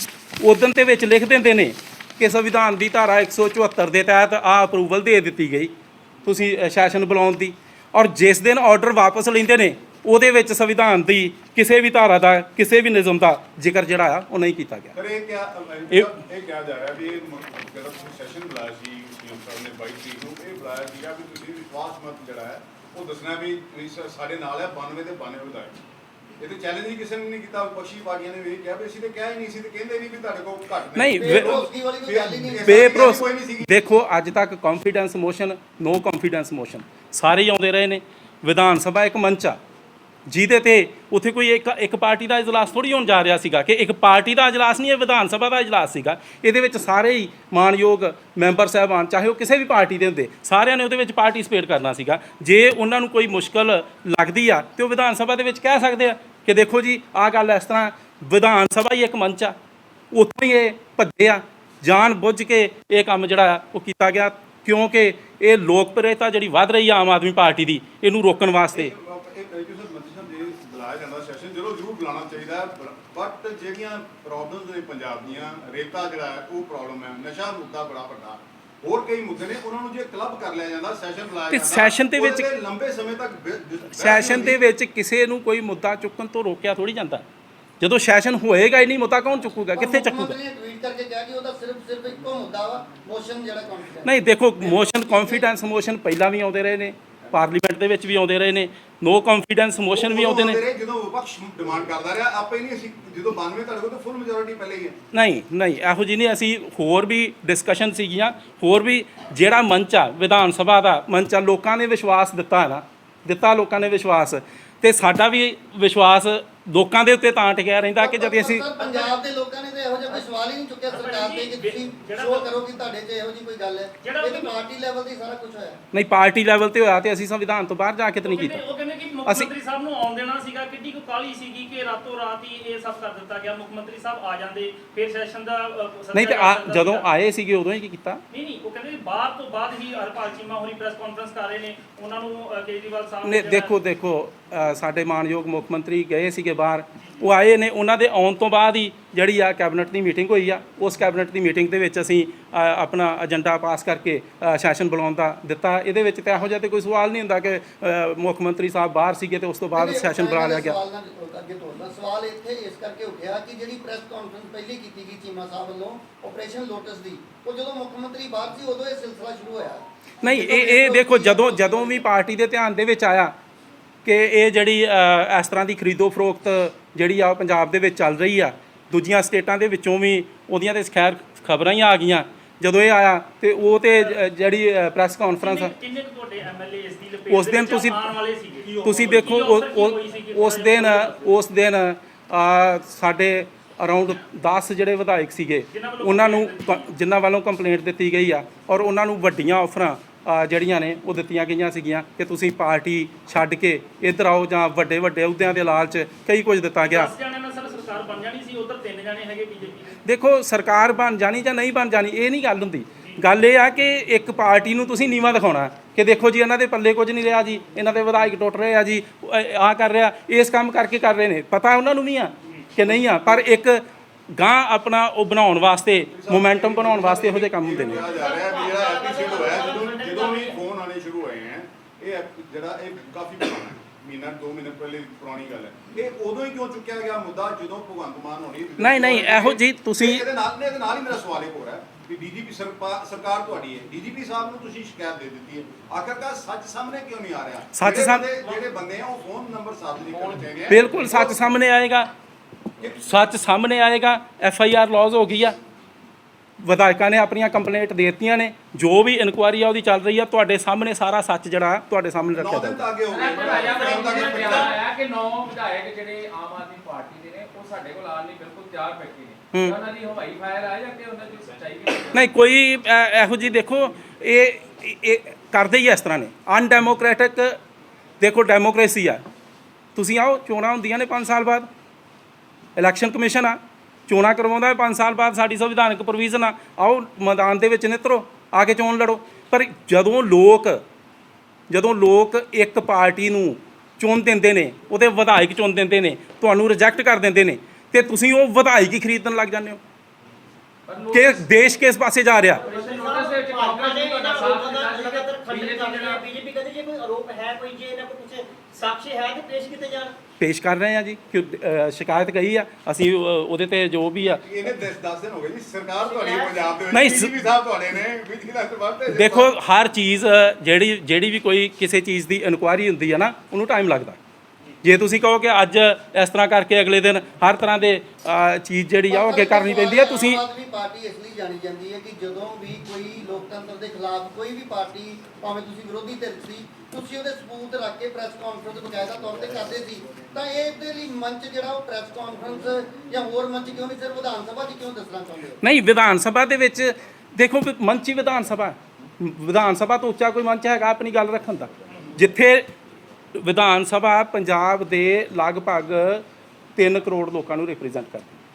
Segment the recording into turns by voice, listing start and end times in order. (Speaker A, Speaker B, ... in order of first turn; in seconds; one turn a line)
Speaker A: 0.4-5.7
Speaker A: 6.2-14.9
Speaker B: 14.9-25.8
Speaker B: 26.4-33.7
Speaker A: 30.9-31.6
Speaker C: 31.1-33.2
Speaker A: 32.6-39.6
Speaker A: 40.3-59.5
Speaker A: 60.1-68.9
Speaker B: 68.7-84.6
Speaker A: 81.5-82.5
Speaker A: 84.0-87.2
Speaker A: 87.8-90.3
Speaker C: 89.7-95.5
Speaker A: 94.0-100.6
Speaker B: 99.9-105.0
Speaker A: 105.1-118.7
Speaker C: 118.0-125.8
Speaker D: 118.8-119.1
Speaker D: 120.9-122.5
Speaker D: 124.0-124.5
Speaker A: 125.9-128.6
Speaker D: 128.2-137.1
Speaker A: 136.1-138.2
Speaker D: 138.3-143.7
Speaker A: 143.2-160.8
Speaker C: 159.7-172.0
Speaker A: 170.2-173.3
Speaker A: 174.0-185.7
Speaker D: 185.4-191.3
Speaker A: 187.3-188.1
Speaker A: 188.8-207.1
Speaker D: 195.7-196.9
Speaker D: 206.8-209.9
Speaker A: 210.0-228.0
Speaker B: 226.1-251.5
Speaker E: 227.9-230.6
Speaker A: 238.8-240.2
Speaker A: 247.7-248.3
Speaker A: 250.7-252.1
Speaker B: 252.8-253.3
Speaker A: 253.0-255.6
Speaker A: 256.6-262.9
Speaker B: 262.3-264.8
Speaker F: 263.1-272.3
Speaker E: 263.3-264.7
Speaker A: 269.5-269.8
Speaker A: 272.1-277.6
Speaker A: 278.2-279.2
Speaker A: 279.9-281.7
Speaker A: 282.8-290.8
Speaker A: 291.7-299.8
Speaker F: 300.9-301.7
Speaker A: 301.1-302.6
Speaker F: 302.6-306.2
Speaker E: 302.6-310.1
Speaker A: 310.4-314.4
Speaker B: 314.4-319.5
Speaker E: 316.0-316.8
Speaker A: 316.9-317.3
Speaker A: 319.1-324.2
Speaker A: 324.8-330.4
Speaker C: 329.1-345.6
Speaker A: 345.6-352.7
Speaker A: 353.3-356.2
Speaker A: 356.8-358.3